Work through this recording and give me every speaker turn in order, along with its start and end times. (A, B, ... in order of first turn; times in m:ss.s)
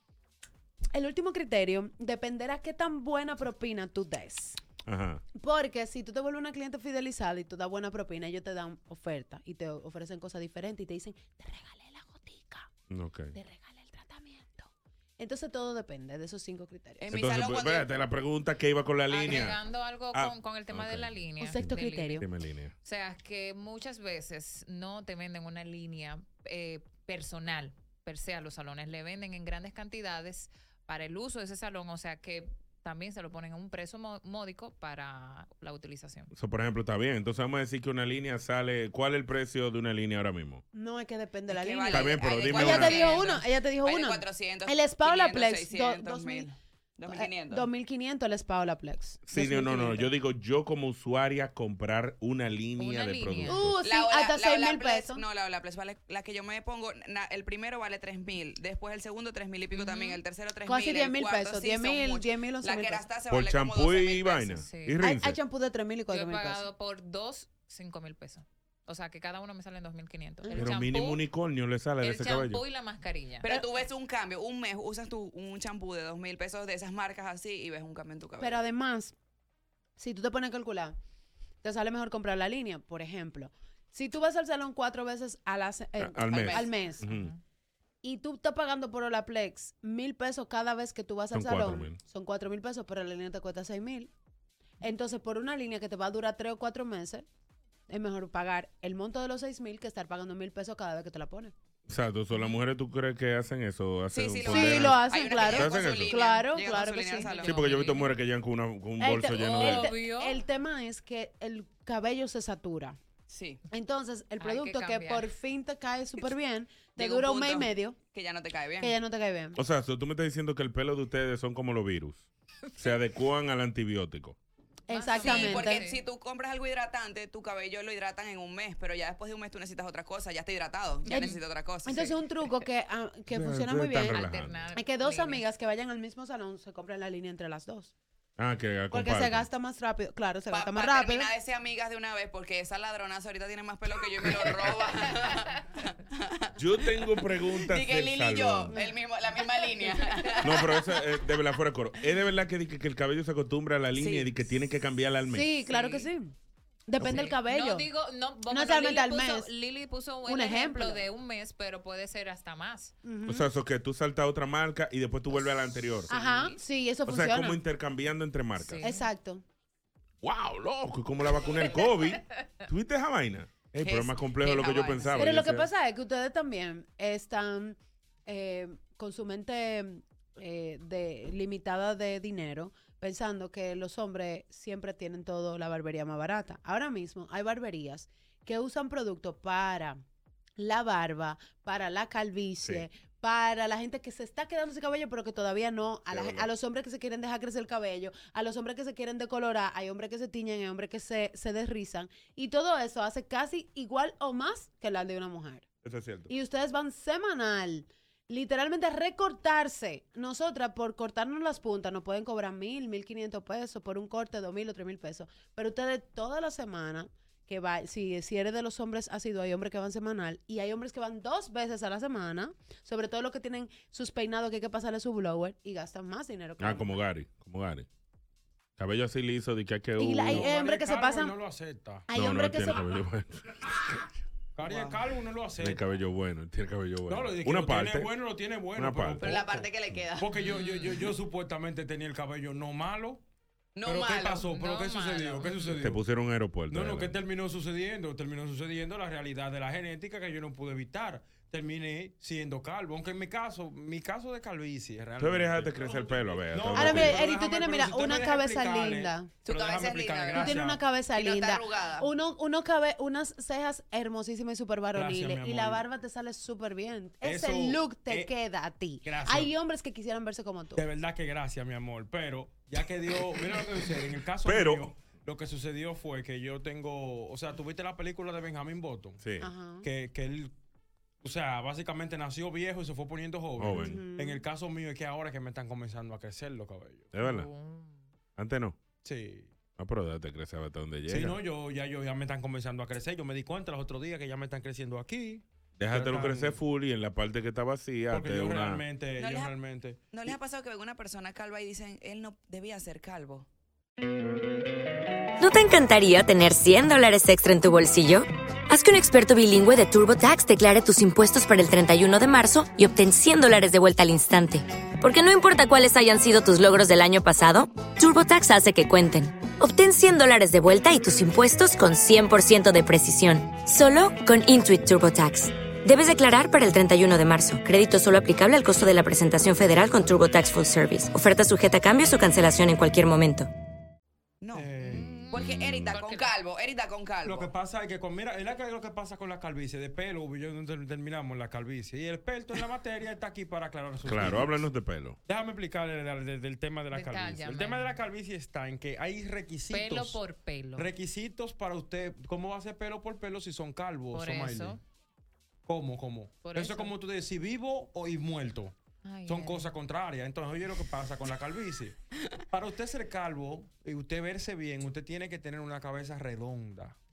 0:00.9-0:04.6 A
0:04.8-0:05.2 B
0:05.3-0:12.7 A
0:12.9-0:13.3 B
0:13.3-0:17.1 A
0:17.0-0:18.0 C
0:17.1-0:19.6 B
0:19.1-0:22.2 D
0:20.1-0:21.1 B
0:21.4-0:22.2 A
0:21.7-0:22.7 B
0:22.8-0:36.3 D
0:36.3-0:40.6 B
0:40.7-0:46.4 A
0:41.5-0:47.7 C
0:41.9-0:43.1 B
0:47.1-0:50.1 A
0:49.2-0:53.7 B
0:52.8-0:53.6 D
0:53.5-0:55.2 A
0:53.8-1:04.6 C
0:59.7-1:00.2 D
1:00.7-1:03.0 A
1:03.3-1:05.4 B
1:04.6-1:05.0 D
1:05.0-1:06.6 A
1:06.1-1:11.2 D
1:10.4-1:10.7 A
1:10.6-1:12.6 B
1:12.0-1:13.5 D
1:13.4-1:18.6 C
1:18.4-1:19.1 A
1:20.0-1:21.0 A
1:21.6-1:27.0 A
1:26.0-1:27.3 B
1:26.2-1:26.7 C
1:27.0-1:27.4 D
1:28.0-1:34.1 A
1:31.3-1:32.0 B
1:34.8-1:37.2 A
1:37.9-1:41.5 A
1:41.9-1:46.1 B
1:44.1-1:47.6 C
1:44.5-1:47.4 A
1:47.2-1:48.1 D
1:47.4-1:49.9 B
1:49.0-1:53.0 A
1:49.4-1:50.4 D
1:53.3-1:53.6 C
1:53.7-1:58.0 A
1:54.4-1:55.3 D
1:57.0-1:58.9 C
1:58.8-1:59.6 A
1:59.6-2:04.4 B
2:04.9-2:05.8 A
2:04.9-2:06.0 D
2:05.2-2:12.1 C
2:11.1-2:11.4 D
2:11.1-2:17.9 A
2:13.3-2:14.6 B
2:14.1-2:15.4 D
2:18.4-2:19.5 B
2:18.9-2:21.3 A
2:20.5-2:30.8 C
2:26.6-2:28.7 B
2:30.4-2:35.5 B
2:33.9-2:34.3 C
2:35.3-2:36.3 A
2:35.6-2:36.1 D
2:36.9-2:37.9 A
2:37.0-2:37.2 B
2:37.0-2:42.9 D
2:38.5-2:39.5 A
2:40.2-2:41.1 A
2:43.0-2:43.5 A
2:43.3-2:46.1 B
2:46.1-2:46.6 D
2:46.1-2:47.6 A
2:47.1-2:48.8 B
2:48.6-2:49.1 D
2:48.8-2:49.4 A
2:50.2-2:55.7 B
2:53.8-2:55.3 C
2:55.2-3:10.0 A
3:10.6-3:25.6 A
3:16.1-3:16.5 B
3:25.8-3:26.3 B
3:26.3-3:46.9 A
3:46.6-3:47.9 B
3:48.8-3:50.5 B
3:50.0-3:51.4 A
3:50.3-3:52.1 E
3:52.1-3:52.8 A
3:52.1-3:54.1 B
3:54.6-3:55.8 E
3:54.6-3:55.0 C
3:55.6-3:58.1 B
3:57.1-4:03.2 E
3:58.7-3:59.4 B
3:59.2-4:00.4 C
4:00.4-4:01.1 D
4:03.8-4:04.5 C
4:03.9-4:06.0 E
4:04.5-4:05.8 D
4:05.7-4:07.2 B
4:06.7-4:20.8 E
4:15.2-4:17.2 B
4:16.7-4:19.3 A
4:19.4-4:20.6 C
4:20.4-4:30.8 A
4:21.1-4:22.1 C
4:24.9-4:25.8 E
4:27.2-4:28.3 E
4:29.0-4:29.5 E
4:30.8-4:39.2 E
4:34.4-4:34.9 B
4:39.2-4:39.5 B
4:39.4-4:39.9 A
4:39.8-4:40.5 E
4:41.2-4:47.1 E
4:43.6-4:44.0 B
4:43.7-4:44.4 A
4:47.1-4:47.5 B
4:47.2-4:48.0 D
4:48.4-4:48.8 B
4:49.0-4:49.5 E
4:49.8-4:51.4 B
4:51.1-4:56.6 E
4:55.8-4:58.8 B
4:58.1-5:00.0 E
4:59.2-4:59.5 C
5:00.1-5:03.5 C
5:05.4-5:33.5 F
5:34.4-5:34.7 C
5:34.5-5:35.1 E
5:34.8-5:36.3 D
5:35.3-5:37.5 C
5:35.4-5:35.9 B
5:37.2-5:44.6 E
5:44.0-5:45.2 B
5:45.3-5:50.2 E
5:46.9-5:48.0 D
5:49.7-5:50.9 D
5:50.8-5:54.8 E
5:54.1-5:54.8 D
5:55.6-5:58.8 E
5:56.4-5:56.9 D
5:59.0-5:59.7 D
5:59.3-6:01.9 E
6:02.5-6:07.0 E